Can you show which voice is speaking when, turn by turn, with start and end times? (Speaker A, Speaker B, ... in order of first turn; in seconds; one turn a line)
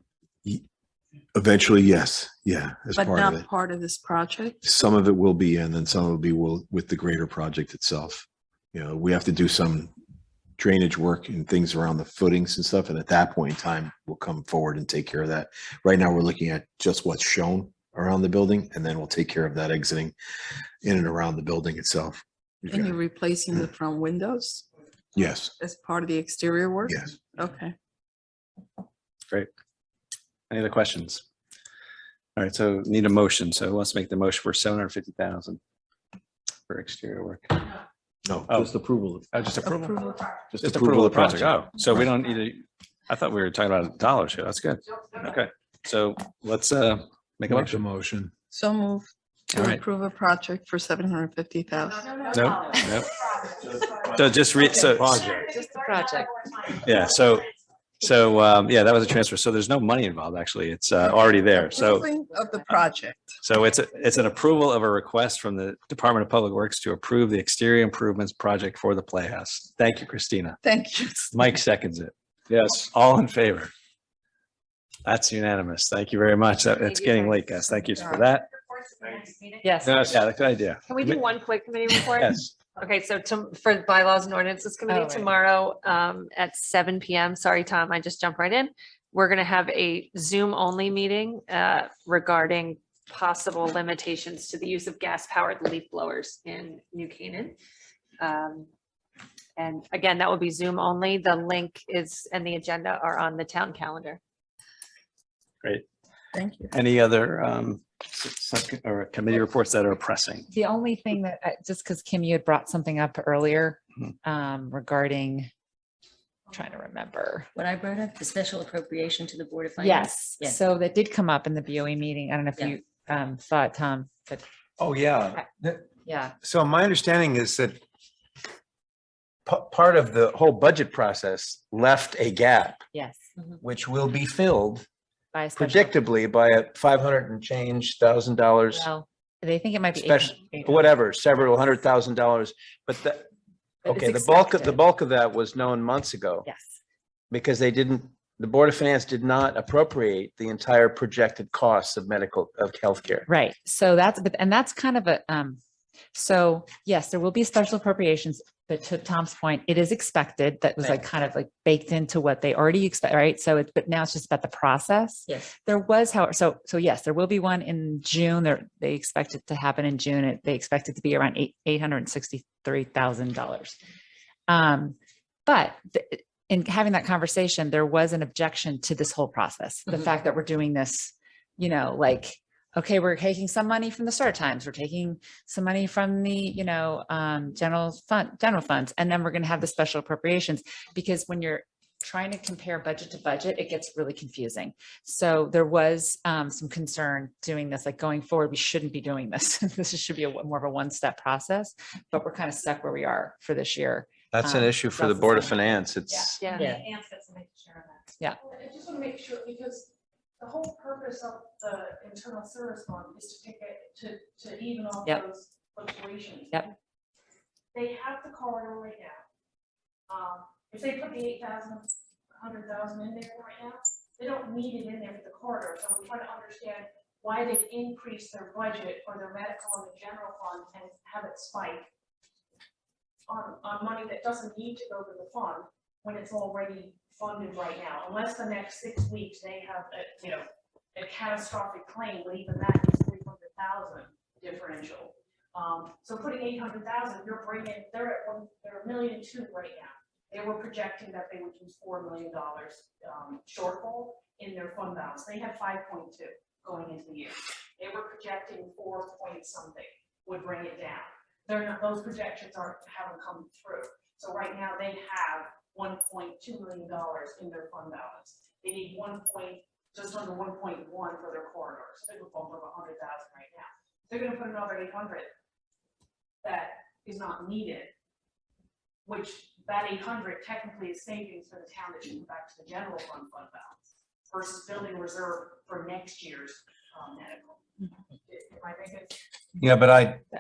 Speaker A: 1.4-3.5
Speaker B: 3.0-4.7
Speaker A: 4.6-9.9
Speaker A: 10.6-20.1
Speaker A: 20.8-22.9
Speaker B: 22.6-24.7
Speaker A: 25.2-25.5
Speaker B: 25.6-27.8
Speaker C: 30.5-31.2
Speaker C: 32.4-35.6
Speaker C: 36.7-37.6
Speaker A: 38.2-38.7
Speaker C: 38.5-40.0
Speaker B: 39.6-40.2
Speaker A: 40.5-41.6
Speaker C: 40.6-48.0
Speaker B: 48.5-52.1
Speaker C: 49.5-49.8
Speaker D: 52.0-57.3
Speaker C: 52.3-53.1
Speaker C: 54.1-55.5
Speaker E: 55.6-56.3
Speaker C: 56.8-57.5
Speaker C: 58.0-62.2
Speaker B: 61.5-63.4
Speaker C: 63.4-70.6
Speaker B: 70.6-71.5
Speaker C: 71.3-73.7
Speaker C: 75.1-78.5
Speaker F: 76.8-80.2
Speaker E: 79.6-80.0
Speaker C: 79.8-81.2
Speaker F: 80.8-97.6
Speaker C: 82.2-82.5
Speaker E: 84.9-85.3
Speaker F: 98.2-98.7
Speaker F: 99.6-104.2
Speaker B: 106.3-106.7
Speaker C: 106.7-110.5
Speaker E: 110.5-115.5
Speaker E: 116.5-117.5
Speaker G: 117.5-120.6
Speaker E: 119.8-124.4
Speaker H: 124.8-125.9
Speaker E: 125.3-126.4
Speaker H: 126.4-127.8
Speaker H: 129.5-132.8
Speaker E: 132.9-133.2
Speaker H: 133.6-134.9
Speaker E: 135.3-136.0
Speaker H: 135.6-138.9
Speaker E: 138.7-140.9
Speaker H: 140.0-143.3
Speaker E: 143.8-144.8
Speaker H: 143.9-146.5
Speaker E: 146.4-146.8
Speaker H: 147.3-153.3
Speaker E: 153.3-155.6
Speaker E: 156.2-173.8
Speaker E: 174.5-206.8
Speaker H: 204.3-206.4
Speaker F: 206.4-208.1
Speaker D: 208.4-216.6
Speaker D: 217.7-219.2
Speaker D: 220.1-231.9
Speaker D: 233.3-275.3
Speaker D: 276.4-277.9
Speaker D: 279.1-287.6
Speaker D: 288.3-289.2
Speaker H: 289.6-290.2